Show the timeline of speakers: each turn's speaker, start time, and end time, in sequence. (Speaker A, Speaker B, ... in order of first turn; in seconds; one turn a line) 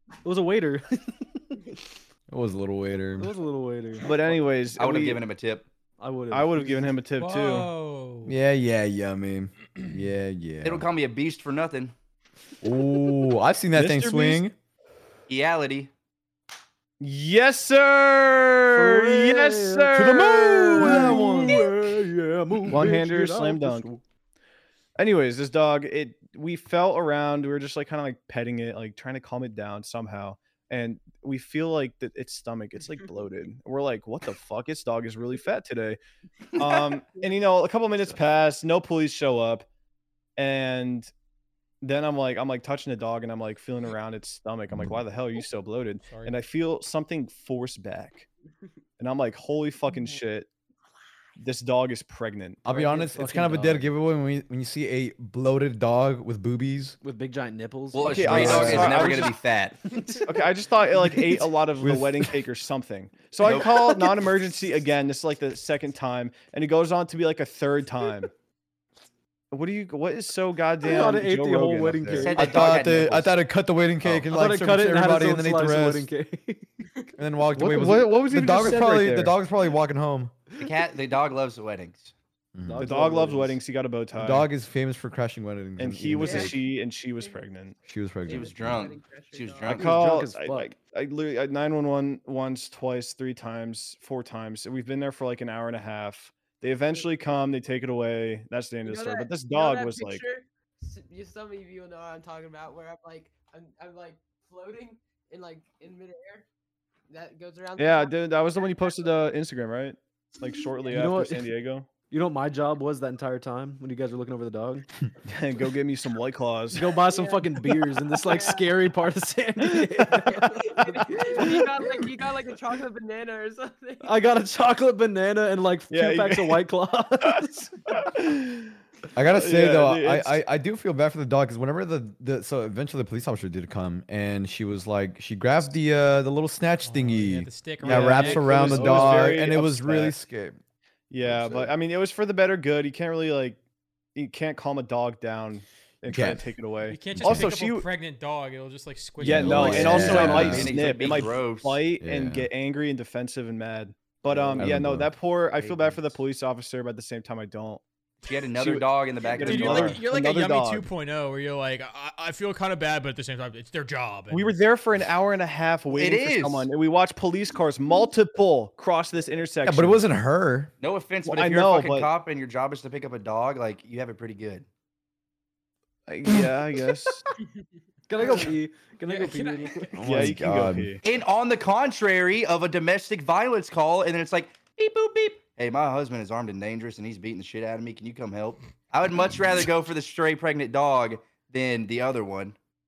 Speaker A: 0.2-1.6
Speaker B: 2.3-3.3
Speaker A: 3.2-4.4
Speaker C: 4.0-5.2
Speaker D: 4.8-5.7
Speaker A: 6.0-7.0
Speaker C: 6.3-7.7
Speaker E: 7.2-8.4
Speaker B: 8.2-10.8
Speaker D: 10.6-11.9
Speaker B: 12.6-14.5
Speaker C: 13.7-14.4
Speaker D: 15.3-15.9
Speaker C: 17.0-21.6
Speaker A: 18.7-24.0
Speaker B: 19.9-21.6
Speaker C: 22.7-23.9
Speaker C: 25.0-36.0
Speaker C: 36.6-39.6
Speaker C: 40.4-41.1
Speaker C: 41.8-48.3
Speaker E: 46.1-46.4
Speaker C: 49.0-50.5
Speaker C: 51.4-52.7
Speaker B: 52.6-57.0
Speaker A: 52.7-53.9
Speaker A: 57.0-59.1
Speaker D: 57.9-59.8
Speaker C: 58.0-59.3
Speaker B: 58.2-59.1
Speaker A: 59.9-60.5
Speaker C: 60.2-68.3
Speaker A: 61.1-61.5
Speaker B: 61.8-62.3
Speaker D: 63.4-63.7
Speaker C: 69.5-72.3
Speaker A: 70.8-72.6
Speaker D: 72.1-73.3
Speaker B: 72.3-76.1
Speaker A: 74.2-76.7
Speaker B: 77.2-80.3
Speaker C: 77.6-79.3
Speaker D: 80.6-82.1
Speaker B: 82.5-82.9
Speaker A: 82.7-83.6
Speaker C: 82.8-84.5
Speaker B: 84.1-86.5
Speaker C: 85.8-87.8
Speaker F: 86.2-87.5
Speaker B: 87.9-88.5
Speaker F: 88.2-89.8
Speaker D: 88.3-89.9
Speaker C: 89.7-100.2
Speaker A: 89.7-90.8
Speaker F: 98.8-106.5
Speaker F: 107.1-109.0
Speaker C: 107.8-111.9
Speaker A: 110.9-111.6
Speaker A: 112.1-114.8
Speaker C: 115.3-117.0
Speaker A: 116.7-120.5
Speaker F: 117.1-118.7
Speaker F: 120.3-124.2
Speaker A: 124.0-128.0
Speaker C: 125.9-126.6
Speaker C: 127.9-128.7
Speaker B: 129.1-140.6
Speaker C: 129.3-130.4
Speaker E: 136.8-139.2
Speaker C: 137.8-140.1
Speaker A: 138.6-139.3
Speaker C: 141.1-143.6
Speaker A: 141.3-141.7
Speaker C: 144.1-147.8
Speaker B: 146.1-146.5
Speaker E: 146.8-150.6
Speaker B: 147.1-147.5
Speaker B: 149.2-150.8
Speaker C: 149.2-157.8
Speaker D: 149.7-151.8
Speaker B: 152.0-152.5
Speaker A: 154.3-154.6
Speaker B: 154.5-155.1
Speaker D: 158.2-160.0
Speaker C: 158.6-160.9
Speaker E: 159.4-164.5
Speaker C: 164.3-170.0
Speaker D: 165.9-166.7
Speaker B: 169.6-170.7
Speaker D: 170.8-174.7
Speaker C: 171.2-172.1
Speaker C: 176.1-177.2
Speaker A: 178.1-180.3
Speaker F: 178.2-178.5
Speaker E: 179.1-179.8
Speaker B: 179.9-180.9
Speaker C: 180.0-181.0
Speaker D: 181.0-192.6